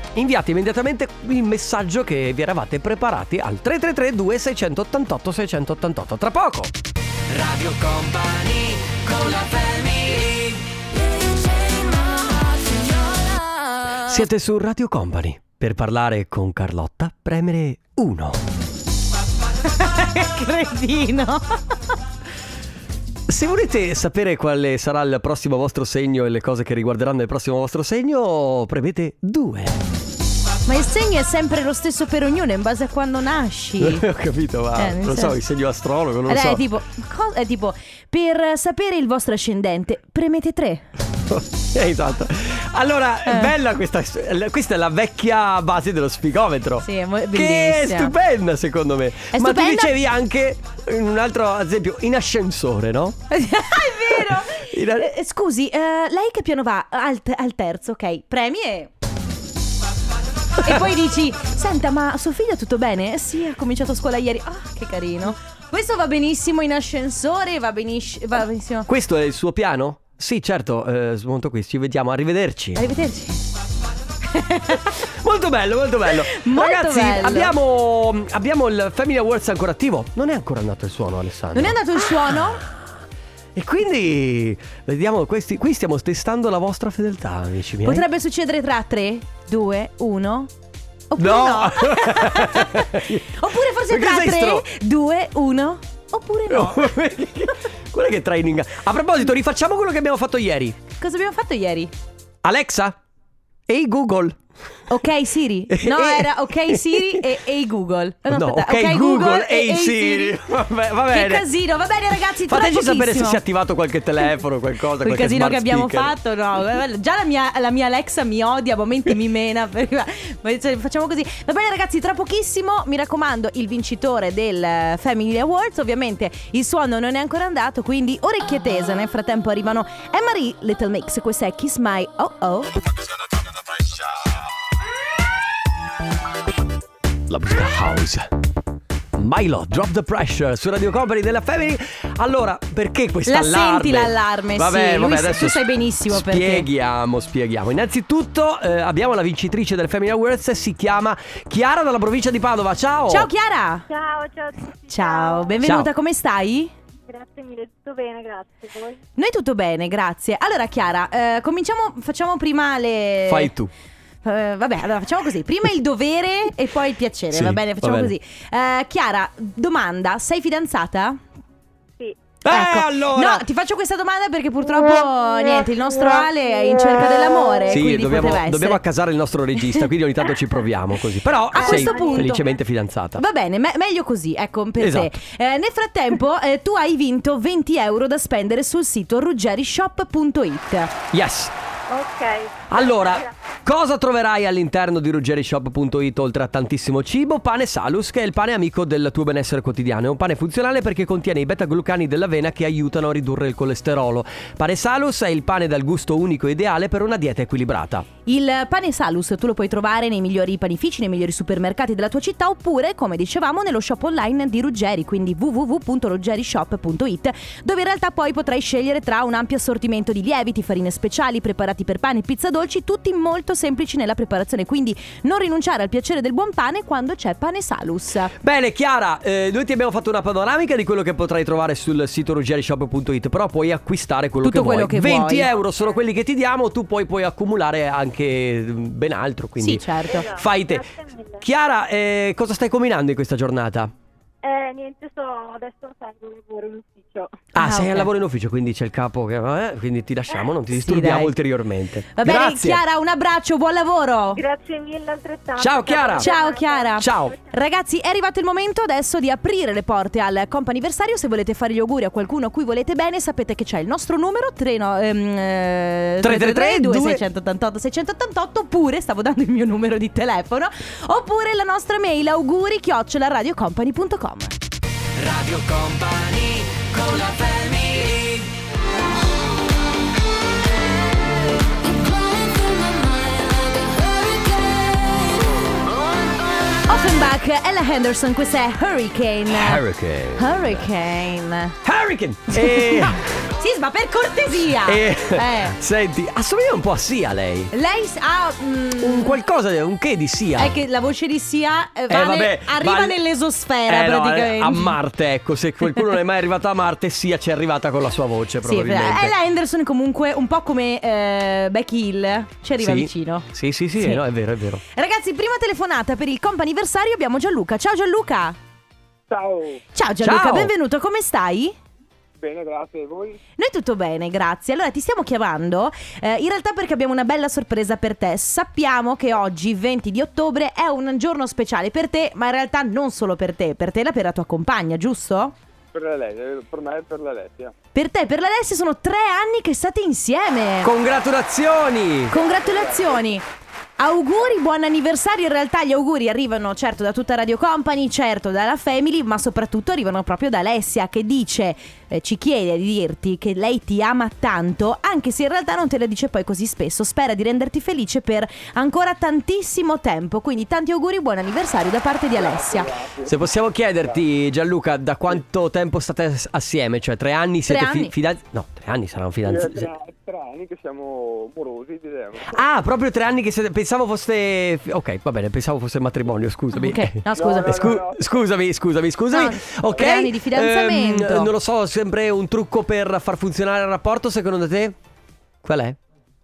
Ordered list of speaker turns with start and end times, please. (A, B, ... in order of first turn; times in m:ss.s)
0:00.2-0:06.7 A
0:07.3-0:10.6 B
0:14.1-0:18.4 A
0:19.8-0:21.6 C
0:23.3-0:29.8 A
0:30.7-0:34.1 C
0:33.8-0:36.7 A
0:34.8-0:35.4 C
0:36.3-0:40.9 C
0:41.3-0:53.2 A
0:43.3-0:43.5 C
0:46.8-0:48.1 C
0:49.3-0:49.9 C
0:53.3-0:58.9 C
0:54.1-0:55.1 A
1:00.6-1:08.9 C
1:08.9-1:12.8 A
1:12.8-1:13.4 C
1:14.3-1:14.9 C
1:15.2-1:22.4 A
1:16.3-1:17.6 C
1:21.5-1:22.6 C
1:23.6-1:28.1 A
1:27.8-1:30.5 C
1:31.1-1:36.9 C
1:31.2-1:33.3 A
1:33.9-1:34.6 A
1:36.5-1:40.8 A
1:41.0-1:41.9 C
1:42.4-1:43.0 A
1:43.7-1:44.4 A
1:44.9-1:50.4 C
1:45.7-1:47.2 A
1:48.3-1:51.5 A
1:51.1-1:53.4 C
1:52.4-1:56.1 A
1:55.0-2:12.7 C
2:17.3-2:18.3 A
2:19.2-2:33.3 A
2:23.3-2:26.7 C
2:33.1-2:33.9 C
2:33.9-2:35.6 D
2:34.9-2:36.7 C
2:35.6-2:35.9 A
2:37.1-2:39.0 D
2:39.2-2:43.5 C
2:43.3-2:43.7 A
2:44.2-2:51.2 C
2:47.3-2:48.1 A
2:52.4-2:53.4 A
2:52.5-2:58.8 C
2:57.7-3:03.2 A
3:01.5-3:02.5 C
3:01.6-3:02.3 D
3:03.2-3:10.9 C
3:04.8-3:05.1 A
3:11.1-3:11.5 A
3:11.9-3:13.3 D
3:12.7-3:28.1 A
3:28.3-3:48.3 C
3:48.4-4:00.9 A
3:54.4-3:55.5 C
3:59.6-4:00.3 C
4:00.1-4:01.4 D
4:01.4-4:03.9 A
4:04.4-4:07.4 D
4:07.5-4:12.8 A
4:07.6-4:08.1 C
4:10.7-4:11.3 C
4:12.2-4:14.4 C
4:14.3-4:17.4 D
4:15.6-4:16.3 A
4:16.2-4:34.6 C
4:17.0-4:17.4 A
4:26.2-4:27.2 A
4:35.2-4:38.5 B
4:46.9-4:49.8 C
4:49.5-4:50.8 A
4:50.4-4:51.8 C
4:51.8-4:53.3 A
4:52.5-4:55.8 C
4:54.8-4:57.7 A
4:57.7-4:59.4 C
4:59.0-5:00.8 A
5:00.6-5:05.0 C
5:02.1-5:03.2 A
5:03.9-5:09.4 A
5:08.6-5:13.5 C
5:12.8-5:14.8 A
5:14.9-5:18.6 C
5:19.3-5:19.8 E
5:20.0-5:21.8 C
5:20.2-5:20.7 A
5:22.4-5:23.4 E
5:23.6-5:35.6 C
5:35.9-5:37.7 E
5:38.0-5:40.9 C
5:40.8-5:42.4 A
5:42.3-5:43.4 C
5:42.3-5:43.4 E
5:44.0-6:02.9 C
6:02.3-6:04.2 E
6:03.3-6:09.9 A
6:07.7-6:08.1 C
6:09.4-6:12.6 E
6:12.5-6:25.0 A
6:16.7-6:17.8 C
6:17.3-6:18.4 E
6:19.3-6:21.5 C
6:25.6-6:26.0 A